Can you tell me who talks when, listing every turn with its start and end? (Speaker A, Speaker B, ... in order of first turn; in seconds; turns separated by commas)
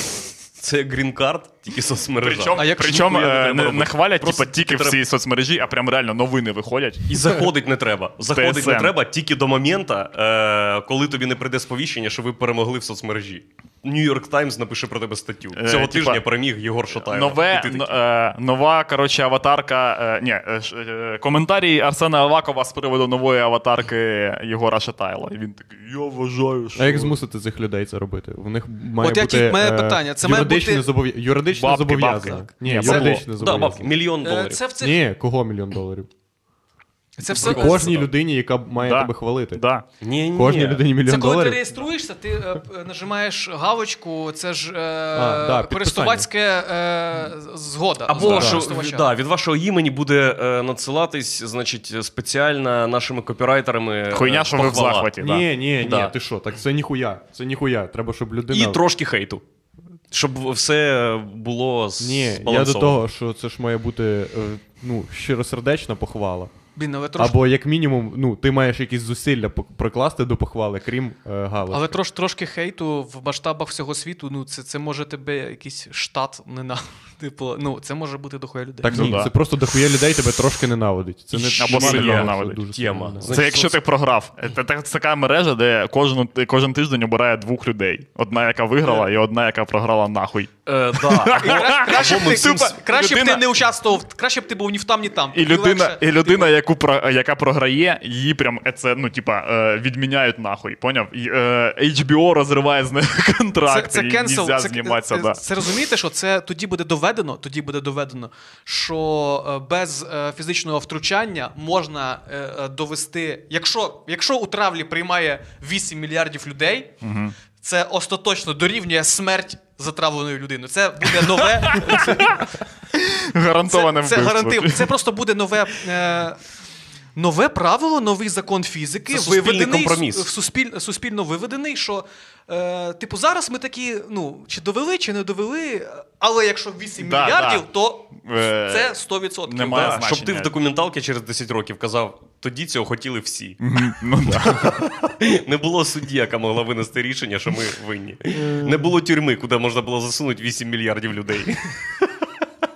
Speaker A: 0.6-5.0, Speaker B: 2.2-7.4, Speaker C: 2.6-3.2, Speaker A: 7.1-17.9, Speaker B: 8.3-8.9, Speaker B: 15.5-16.2, Speaker B: 16.9-27.1, Speaker D: 26.8-34.0, Speaker C: 29.0-30.9, Speaker B: 31.5-33.2, Speaker A: 32.8-34.6, Speaker C: 34.2-35.0, Speaker D: 34.8-36.1, Speaker C: 37.2-38.0, Speaker D: 37.3-39.6, Speaker A: 37.3-38.1, Speaker B: 38.8-39.9, Speaker A: 40.0-40.8, Speaker D: 40.3-41.6, Speaker C: 41.0-49.1, Speaker D: 45.1-46.3, Speaker A: 48.1-55.1, Speaker D: 48.2-48.6, Speaker B: 54.1-55.5, Speaker D: 55.2-58.8, Speaker A: 55.8-56.1, Speaker A: 58.5-59.4, Speaker A: 60.1-63.0, Speaker D: 62.0-66.5, Speaker C: 66.8-67.4, Speaker D: 67.2-72.0, Speaker C: 71.7-79.0, Speaker D: 78.8-83.4, Speaker B: 78.9-79.3, Speaker A: 81.4-83.8, Speaker B: 81.5-82.6, Speaker B: 83.3-93.4, Speaker A: 90.7-92.8, Speaker C: 91.3-96.5, Speaker B: 95.3-105.5, Speaker C: 103.7-116.9, Speaker B: 117.0-117.4, Speaker C: 117.6-122.6, Speaker B: 121.4-124.9, Speaker C: 123.7-126.4, Speaker C: 127.2-140.0, Speaker A: 129.1-130.3, Speaker B: 137.0-138.9, Speaker B: 139.5-140.5, Speaker A: 139.7-143.6, Speaker B: 143.6-144.8, Speaker A: 144.2-152.1